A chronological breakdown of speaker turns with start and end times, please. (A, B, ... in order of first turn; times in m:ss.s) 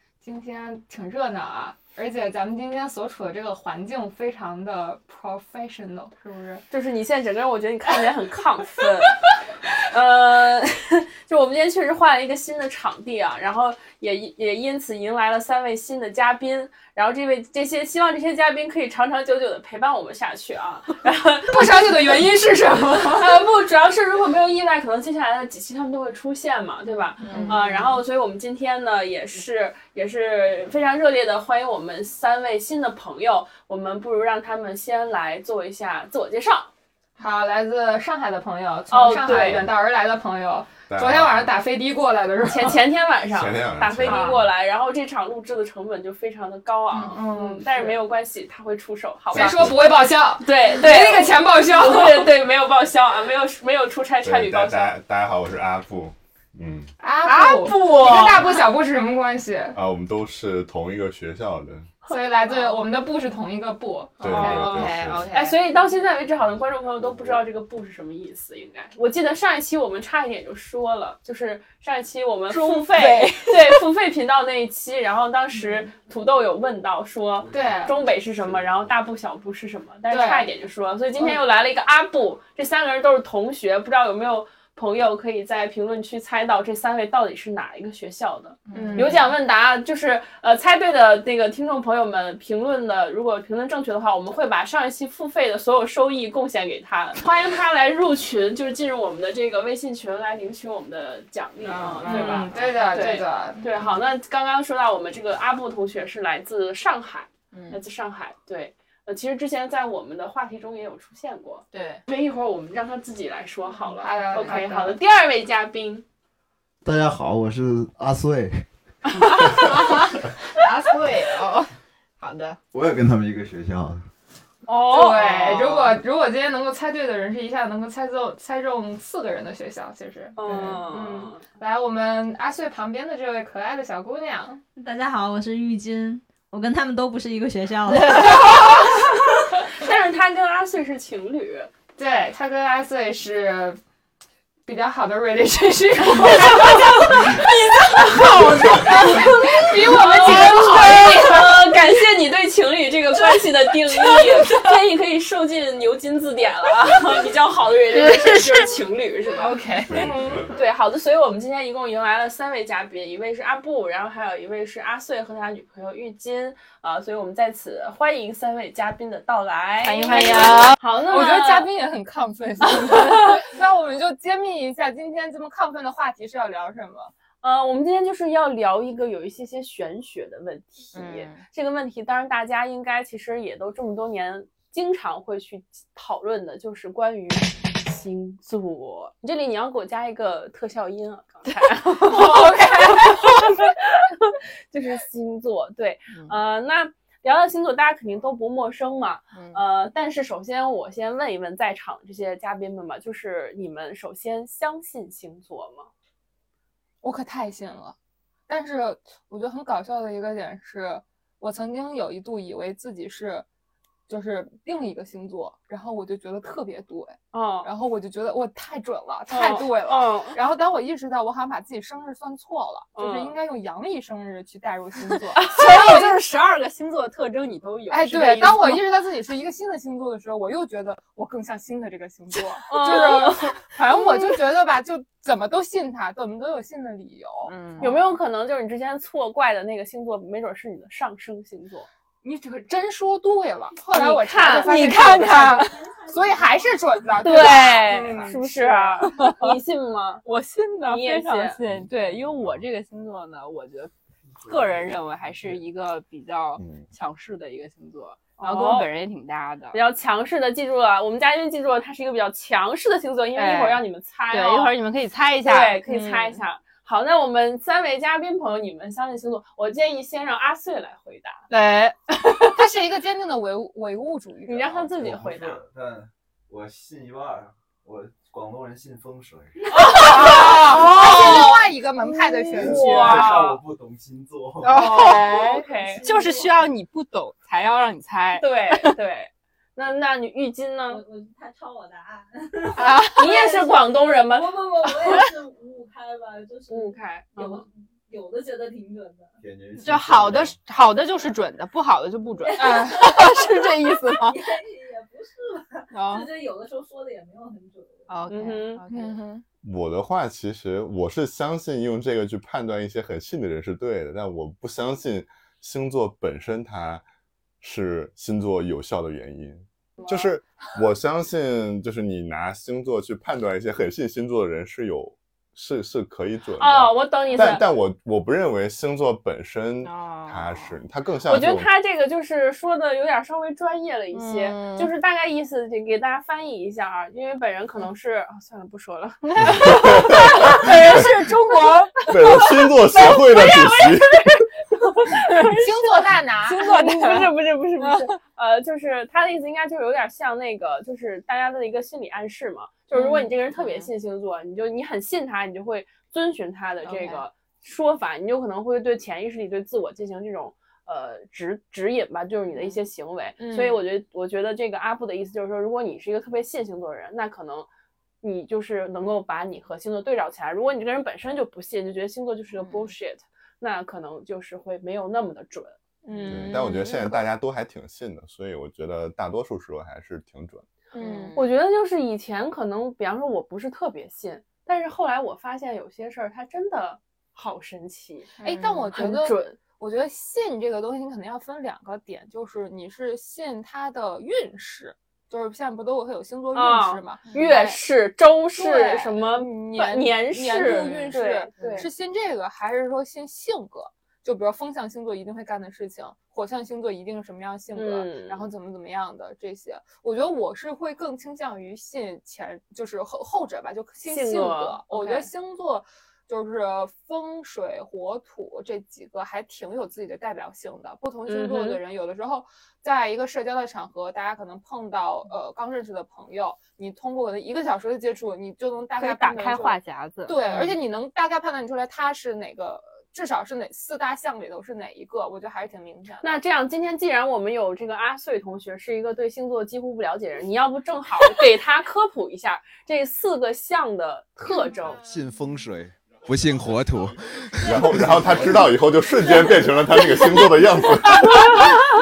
0:00.2-0:06.6 A
0:06.7-0:09.2 B
0:09.8-0:22.0 B
0:21.5-0:23.4 A
0:23.2-0:36.7 B
0:27.2-0:27.6 C
0:27.2-0:28.0 A
0:37.2-0:42.8 A
0:38.9-0:39.7 B
0:39.3-0:39.7 D
0:40.9-0:41.5 D
0:42.4-0:54.9 B
0:43.3-0:44.5 D
0:44.0-0:44.4 A
0:46.9-0:48.0 A
0:49.3-0:50.0 D
0:49.3-0:52.3 A
0:54.2-0:56.9 D
0:57.0-0:59.8 A
0:57.2-0:58.4 C
0:57.5-0:58.5 B
0:59.7-1:01.9 D
1:02.0-1:05.1 A
1:02.1-1:02.7 B
1:04.2-1:05.3 D
1:04.3-1:56.0 B
1:04.3-1:05.6 C
1:12.5-1:13.8 C
1:17.5-1:18.0 A
1:20.1-1:20.5 A
1:28.7-1:29.2 C
1:28.7-1:29.2 A
1:41.7-1:43.7 A
1:41.7-1:42.5 C
1:47.5-1:47.8 C
1:51.7-1:52.0 C
1:53.8-1:55.0 A
1:56.8-1:58.7 E
1:59.4-2:02.6 C
1:59.4-1:59.9 A
2:02.7-2:04.1 E
2:04.6-2:06.0 B
2:04.9-2:14.6 A
2:10.4-2:11.4 B
2:14.8-2:18.6 F
2:17.9-2:19.1 A
2:18.3-2:21.7 B
2:22.0-2:23.8 A
2:24.6-2:31.8 A
2:26.4-2:39.6 B
2:33.2-2:34.7 A
2:38.0-2:38.7 A
2:39.4-2:40.5 A
2:39.9-2:40.5 D
2:40.5-2:51.7 B
2:49.8-2:50.8 C
2:50.1-2:57.1 A
2:57.4-3:25.9 B
3:00.9-3:01.4 C
3:12.0-3:13.5 A
3:16.1-3:16.4 C
3:19.3-3:19.6 C
3:27.0-3:27.9 A
3:28.5-3:33.4 A
3:34.1-3:45.5 A
3:37.3-3:37.7 B
3:39.3-3:40.4 B
3:43.0-3:43.3 B
3:45.4-3:46.1 B
3:45.4-3:48.8 C
3:47.9-3:58.0 A
3:52.7-3:53.6 B
3:52.8-3:53.2 C
3:57.4-3:58.1 C
3:57.8-4:01.9 B
4:02.2-4:09.2 A
4:03.9-4:05.6 B
4:04.4-4:05.6 C
4:05.6-4:06.7 F
4:07.2-4:10.2 B
4:08.0-4:08.3 C
4:09.2-4:09.5 C
4:10.2-4:13.9 C
4:10.8-4:11.6 B
4:14.4-4:19.8 C
4:18.4-4:18.9 B
4:19.7-4:24.7 B
4:23.3-4:26.4 C
4:25.4-4:31.4 B
4:31.5-4:32.0 C
4:32.5-4:34.9 A
4:34.5-4:35.6 B
4:34.9-4:39.8 E
4:39.7-4:43.6 B
4:39.8-4:43.4 A
4:40.2-4:41.5 C
4:42.5-4:44.9 E
4:44.6-4:48.9 C
4:44.7-4:46.0 B
4:45.4-4:46.6 F
4:48.4-4:51.0 B
4:50.9-4:59.3 F
4:52.7-4:53.6 C
4:53.1-4:54.5 B
4:56.7-4:57.6 B
4:59.4-5:00.6 E
4:59.8-5:04.5 C
5:02.4-5:08.1 F
5:02.6-5:03.0 A
5:05.9-5:06.3 C
5:08.1-5:09.2 C
5:08.3-5:08.8 B
5:08.9-5:09.4 A
5:09.6-5:17.0 D
5:17.6-5:31.7 D
5:26.6-5:27.7 B
5:29.8-5:30.8 C
5:31.2-5:39.5 B
5:34.1-5:34.9 C
5:39.2-5:41.8 C
5:39.6-5:41.0 D
5:39.6-5:41.9 A
5:42.1-5:44.4 D
5:42.6-5:44.0 B
5:44.9-5:45.6 B
5:45.3-5:46.7 A
5:46.4-6:07.7 B
5:46.6-5:47.3 C
5:47.8-5:48.1 C
5:53.0-5:53.9 C
6:03.4-6:03.8 A
6:08.2-6:15.8 B
6:16.0-6:17.2 A
6:16.1-6:16.5 C
6:16.3-6:20.7 D
6:20.9-6:21.5 C
6:20.9-6:21.4 A
6:21.4-6:28.3 B
6:28.4-6:28.9 C
6:28.4-6:37.8 A
6:28.9-6:29.6 B
6:36.5-6:41.9 B
6:38.6-7:16.4 A
6:40.5-6:41.9 C
6:47.8-6:48.5 B
6:54.0-6:55.3 B
7:01.3-7:01.8 B
7:08.9-7:10.6 C
7:16.2-7:25.0 B
7:25.0-7:28.7 E
7:27.6-7:31.6 D